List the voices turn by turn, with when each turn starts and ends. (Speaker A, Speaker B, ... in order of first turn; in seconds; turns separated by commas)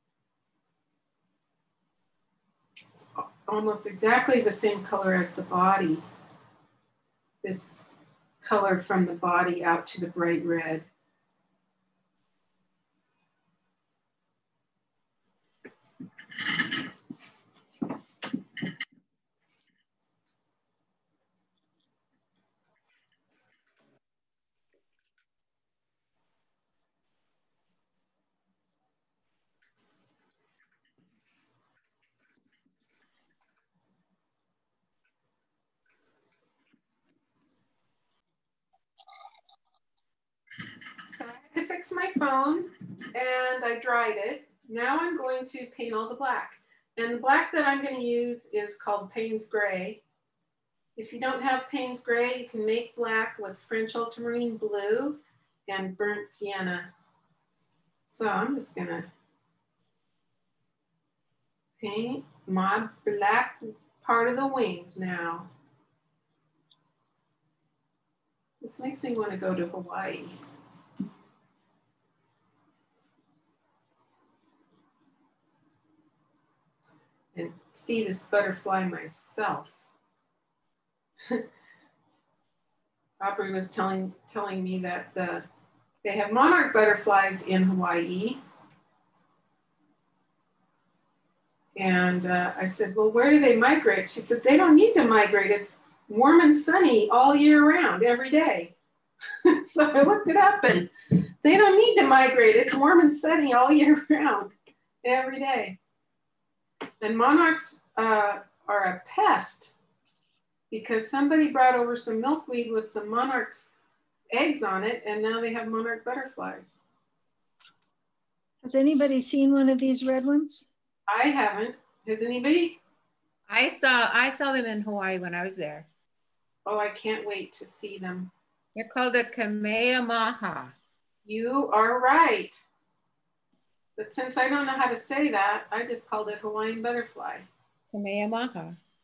Speaker A: 2.9-6.0, Speaker A: 7.4-7.8, Speaker A: 8.4-10.9, Speaker A: 41.1-50.0, Speaker A: 51.0-56.9, Speaker A: 58.1-59.1, Speaker A: 61.8-65.5, Speaker A: 68.6-70.3, Speaker A: 77.3-79.8, Speaker A: 83.2-85.5, Speaker A: 86.0-88.4, Speaker A: 91.7-98.7, Speaker A: 99.4-105.8, Speaker A: 107.0-109.7, Speaker A: 110.7-113.7, Speaker A: 114.3-116.8, Speaker B: 118.6-120.7, Speaker A: 121.1-122.8, Speaker C: 123.5-125.9, Speaker A: 126.7-128.3, Speaker C: 128.7-130.7, Speaker A: 131.2-132.6, Speaker A: 134.0-137.5, Speaker C: 137.9-138.8